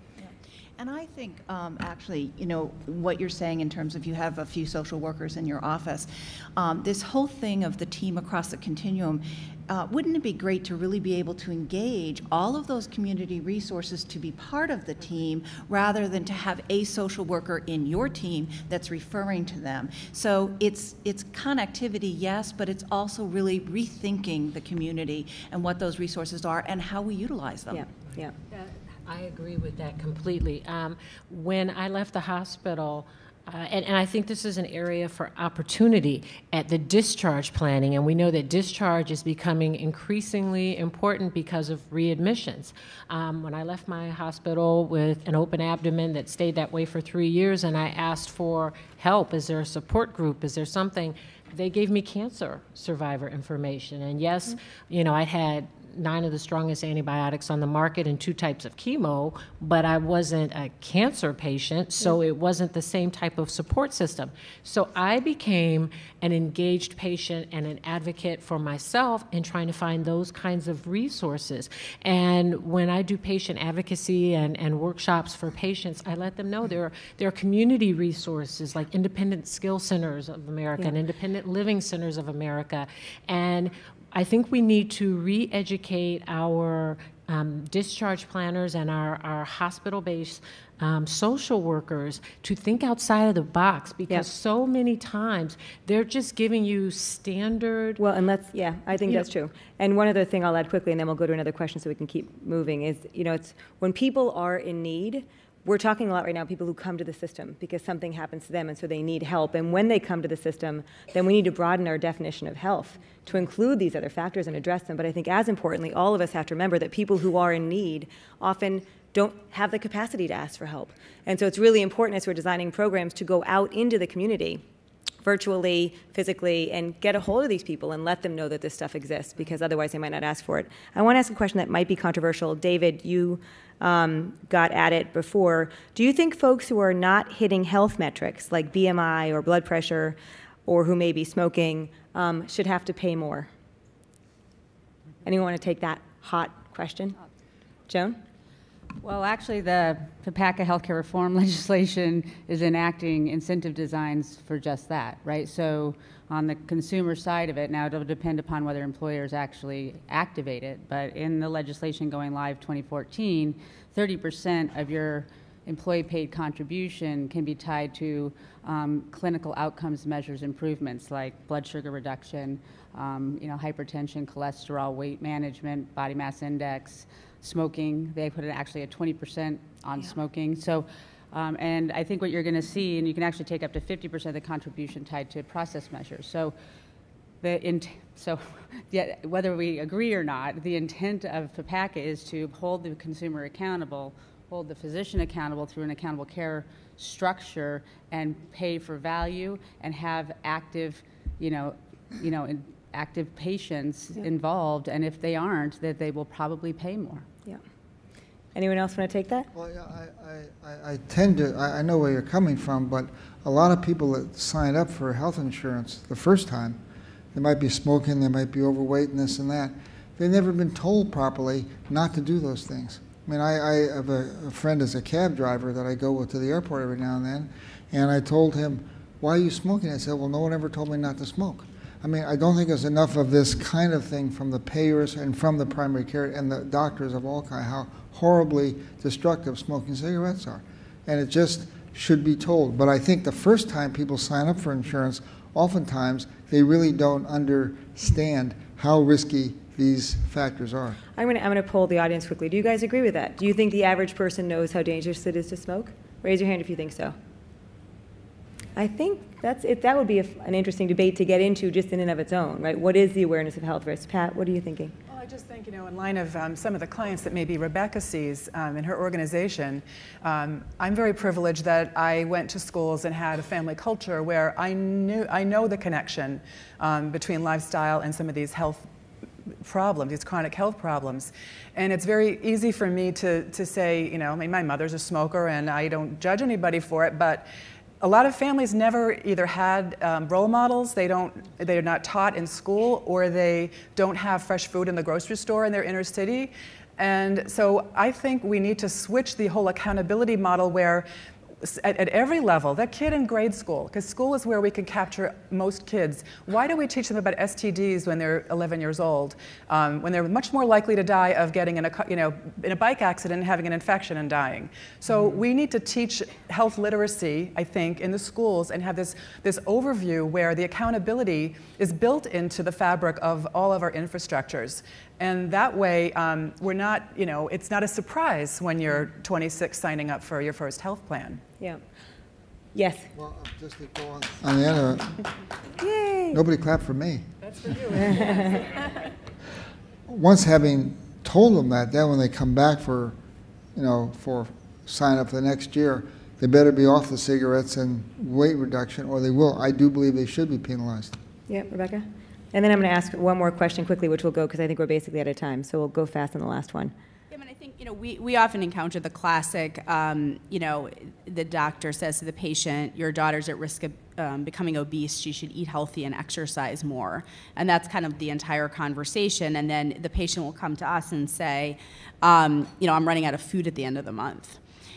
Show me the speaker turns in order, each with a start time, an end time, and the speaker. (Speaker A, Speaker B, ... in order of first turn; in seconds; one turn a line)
Speaker A: 0.2-27.8
Speaker B: 27.7-28.3
Speaker C: 28.5-98.0
Speaker B: 98.0-124.6
Speaker B: 125.2-143.5
Speaker B: 145.2-147.2
Speaker B: 147.9-148.2
Speaker D: 149.0-186.5
Speaker D: 187.4-207.2
Speaker B: 208.5-209.5
Speaker E: 209.5-216.8
Speaker E: 217.3-251.0
Speaker B: 251.2-257.1
Speaker B: 258.8-264.9
Speaker F: 265.1-278.9
Speaker F: 279.6-287.5
Speaker F: 288.0-301.1
Speaker F: 301.6-331.4
Speaker B: 332.7-333.1
Speaker E: 333.1-335.2
Speaker B: 335.8-336.4
Speaker E: 336.3-337.2
Speaker F: 337.5-338.2
Speaker B: 338.0-338.6
Speaker E: 340.1-343.1
Speaker E: 343.7-351.2
Speaker B: 351.5-356.9
Speaker G: 357.3-374.6